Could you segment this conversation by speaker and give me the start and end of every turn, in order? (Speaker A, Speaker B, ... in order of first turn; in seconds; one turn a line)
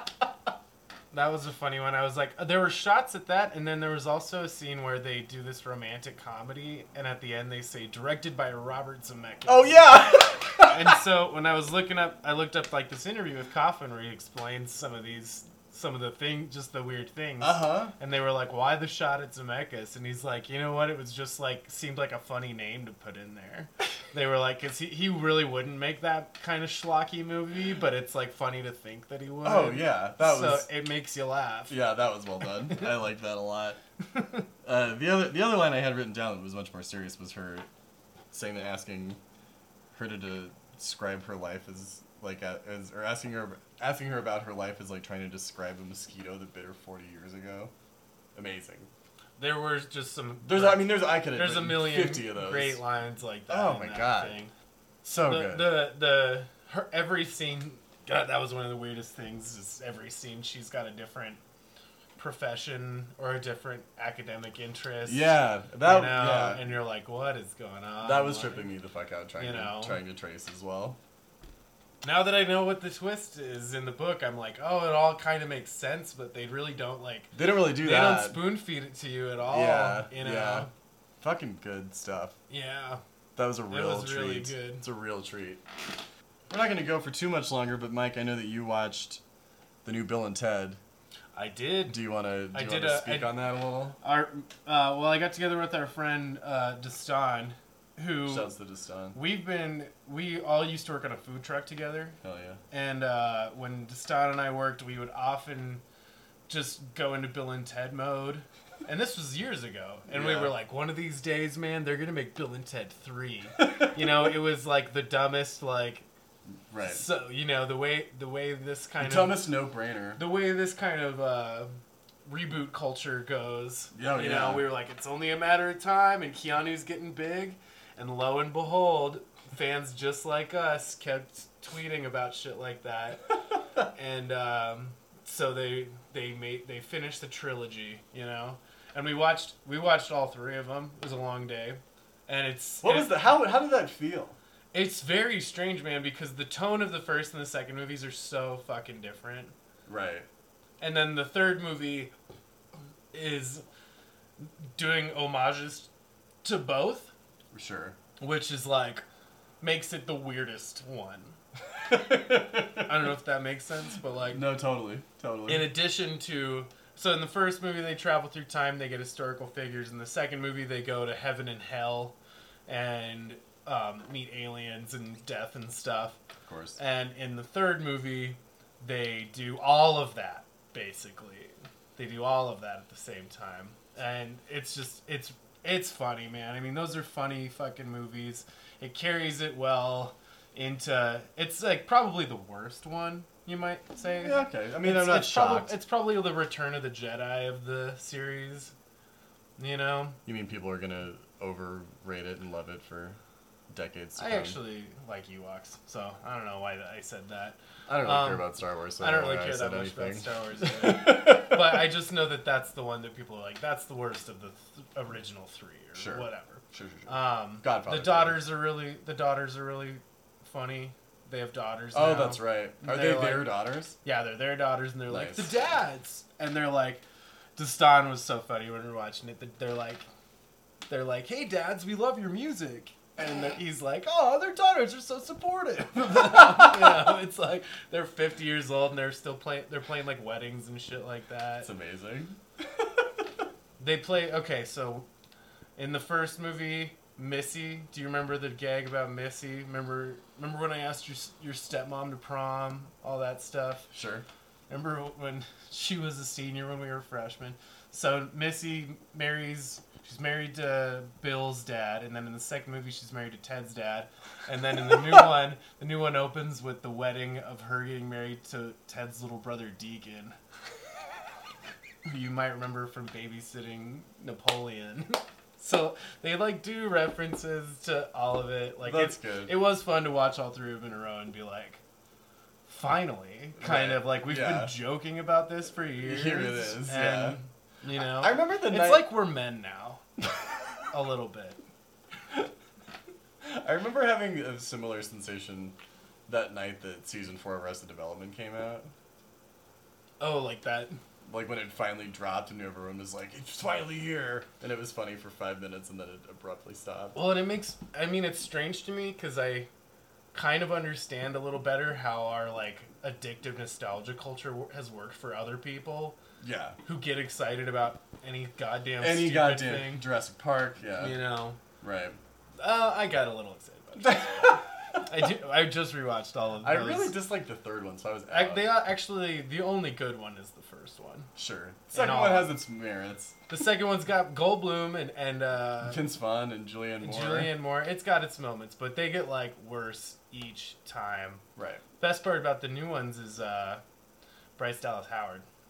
Speaker A: 1.1-9.9
Speaker B: 9.5-11.0
Speaker A: 10.7-31.8
Speaker B: 17.4-17.9
Speaker B: 29.4-30.7
Speaker B: 31.7-33.8
Speaker B: 34.6-37.7
Speaker B: 38.3-39.2
Speaker B: 39.9-47.7
Speaker B: 48.4-48.9
Speaker A: 49.4-54.5
Speaker B: 50.4-52.8
Speaker B: 53.5-54.4
Speaker B: 55.0-55.9
Speaker A: 55.2-61.4
Speaker A: 62.2-68.7
Speaker B: 65.1-66.8
Speaker B: 68.0-71.0
Speaker A: 69.4-70.0
Speaker A: 72.0-80.7
Speaker B: 77.3-78.5
Speaker B: 79.5-80.7
Speaker B: 81.2-82.4
Speaker A: 82.5-83.0
Speaker B: 83.4-85.7
Speaker A: 83.7-84.8
Speaker B: 86.5-89.2
Speaker B: 89.8-90.8
Speaker A: 91.3-93.4
Speaker B: 91.9-94.0
Speaker A: 94.0-98.5
Speaker B: 98.2-99.2
Speaker A: 99.1-102.2
Speaker B: 102.2-102.6
Speaker A: 102.7-105.8
Speaker A: 106.5-116.1
Speaker B: 110.1-110.5
Speaker B: 113.6-114.0
Speaker B: 116.7-117.0
Speaker A: 116.8-119.4
Speaker B: 119.0-120.2
Speaker A: 120.2-121.7
Speaker A: 122.3-133.4
Speaker B: 123.9-124.7
Speaker A: 133.9-143.2
Speaker B: 142.8-144.4
Speaker A: 144.7-149.5
Speaker B: 149.9-150.3
Speaker A: 150.8-152.1
Speaker A: 153.1-153.7
Speaker A: 154.4-155.9
Speaker A: 156.4-157.1
Speaker B: 157.5-158.0
Speaker A: 158.2-159.0
Speaker A: 159.6-161.4
Speaker B: 161.8-162.9
Speaker A: 162.8-164.4
Speaker B: 164.3-165.7
Speaker A: 165.5-172.2
Speaker A: 172.7-176.2
Speaker B: 176.4-176.8
Speaker A: 176.8-198.7
Speaker B: 194.2-195.7
Speaker A: 199.6-200.2
Speaker B: 200.3-204.6
Speaker A: 204.2-208.5
Speaker B: 207.9-211.8
Speaker A: 209.0-227.0
Speaker B: 215.9-218.4
Speaker B: 221.9-224.0
Speaker B: 225.1-225.6
Speaker A: 227.6-230.1
Speaker A: 230.9-241.7
Speaker B: 236.1-236.8
Speaker B: 241.6-243.0
Speaker A: 243.8-245.1
Speaker A: 245.8-253.9
Speaker B: 253.9-254.3
Speaker A: 254.7-270.4
Speaker A: 272.1-281.8
Speaker B: 278.8-279.6
Speaker A: 282.7-290.0
Speaker B: 283.6-284.8
Speaker B: 286.0-287.4
Speaker B: 287.9-289.1
Speaker A: 290.9-291.6
Speaker B: 293.4-298.9
Speaker A: 300.2-300.9
Speaker B: 301.3-307.2
Speaker A: 307.1-309.7
Speaker A: 310.3-316.2
Speaker B: 316.4-316.8
Speaker A: 316.9-320.1
Speaker B: 319.0-321.2
Speaker A: 320.9-321.6
Speaker B: 321.8-322.2
Speaker A: 322.6-327.2
Speaker B: 324.0-324.6
Speaker B: 326.6-328.8
Speaker A: 328.3-331.3
Speaker B: 331.4-333.4
Speaker A: 331.9-332.6
Speaker A: 333.5-336.0
Speaker B: 335.8-337.6
Speaker A: 337.0-341.4
Speaker B: 341.6-341.8
Speaker A: 342.0-343.8
Speaker A: 344.6-345.5